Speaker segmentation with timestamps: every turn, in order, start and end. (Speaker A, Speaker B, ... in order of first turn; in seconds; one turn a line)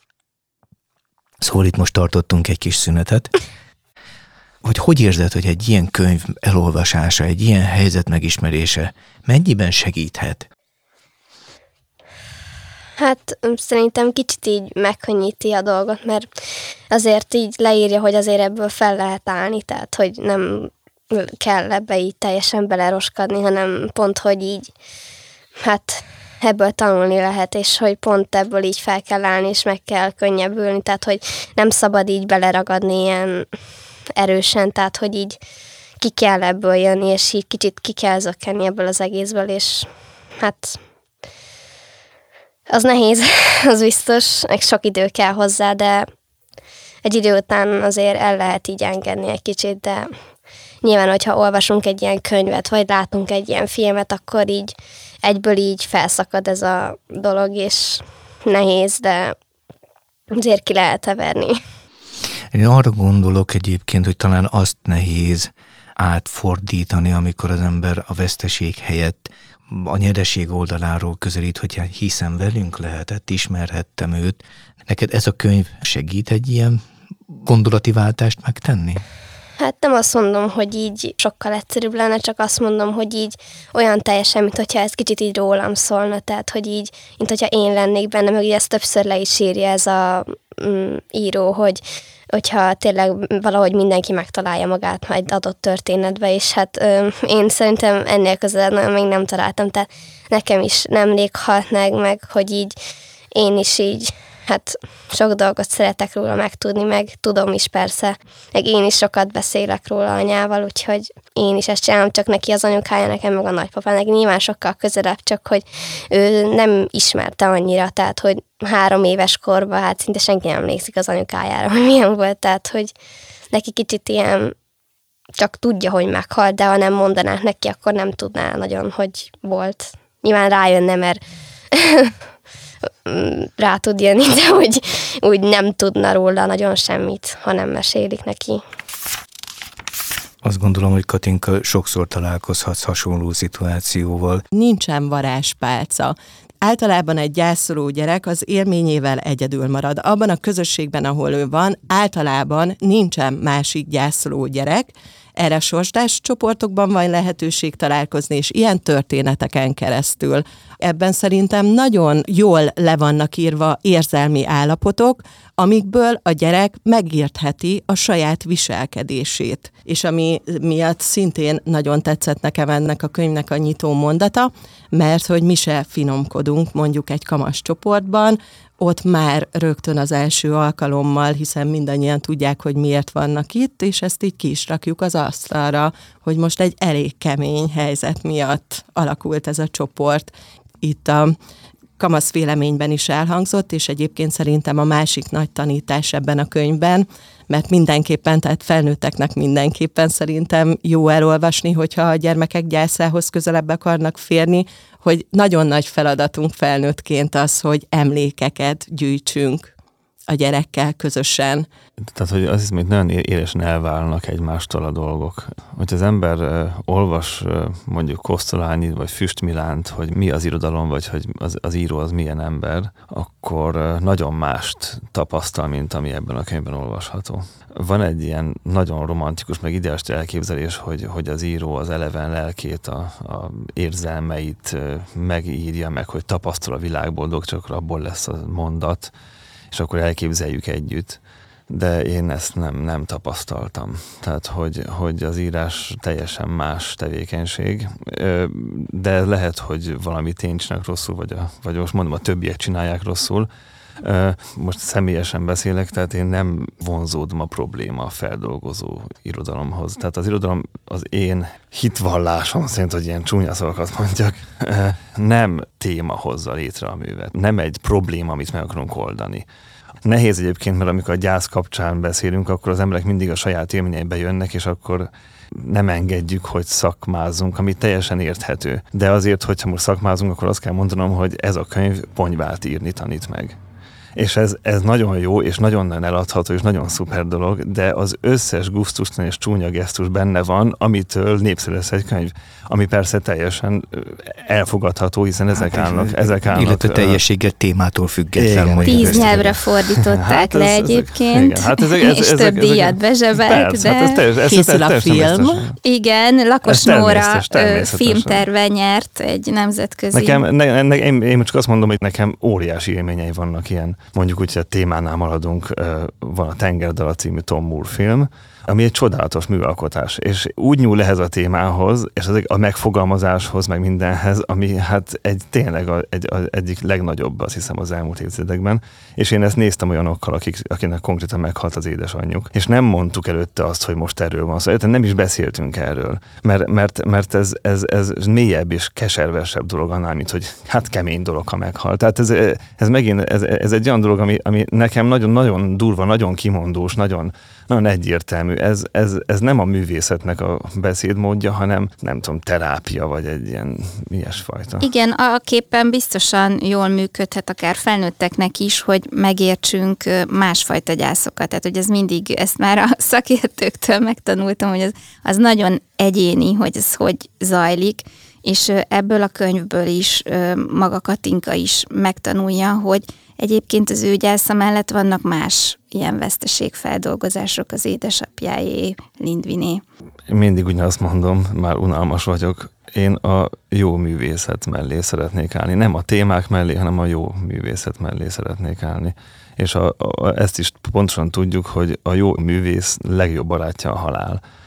Speaker A: 1.4-3.3
Speaker A: 4.6-10.5
Speaker B: 13.0-16.3
Speaker B: 16.9-24.7
Speaker B: 25.6-33.5
Speaker B: 34.1-35.4
Speaker B: 36.0-39.9
Speaker B: 40.4-40.8
Speaker B: 42.7-46.1
Speaker B: 47.0-50.1
Speaker B: 50.8-59.4
Speaker B: 60.3-61.6
Speaker A: 62.5-79.0
Speaker B: 79.6-91.8
Speaker B: 92.3-102.8
Speaker B: 103.3-122.9
Speaker B: 123.5-124.5
Speaker B: 125.4-131.2
Speaker B: 131.7-132.1
Speaker B: 133.1-138.6
Speaker A: 140.4-144.4
Speaker C: 144.5-191.3
Speaker C: 192.0-209.7
Speaker C: 210.3-211.7
Speaker D: 212.1-239.1
Speaker D: 239.7-241.2
Speaker D: 241.7-253.5
Speaker D: 254.0-269.4
Speaker D: 270.0-283.6
Speaker D: 284.1-297.2
Speaker A: 295.6-299.5
Speaker D: 298.4-305.7
Speaker E: 298.9-304.2
Speaker C: 304.4-305.7
Speaker E: 305.8-310.4
Speaker D: 306.6-308.4
Speaker D: 310.1-354.8
Speaker E: 354.8-379.8
Speaker D: 380.3-394.4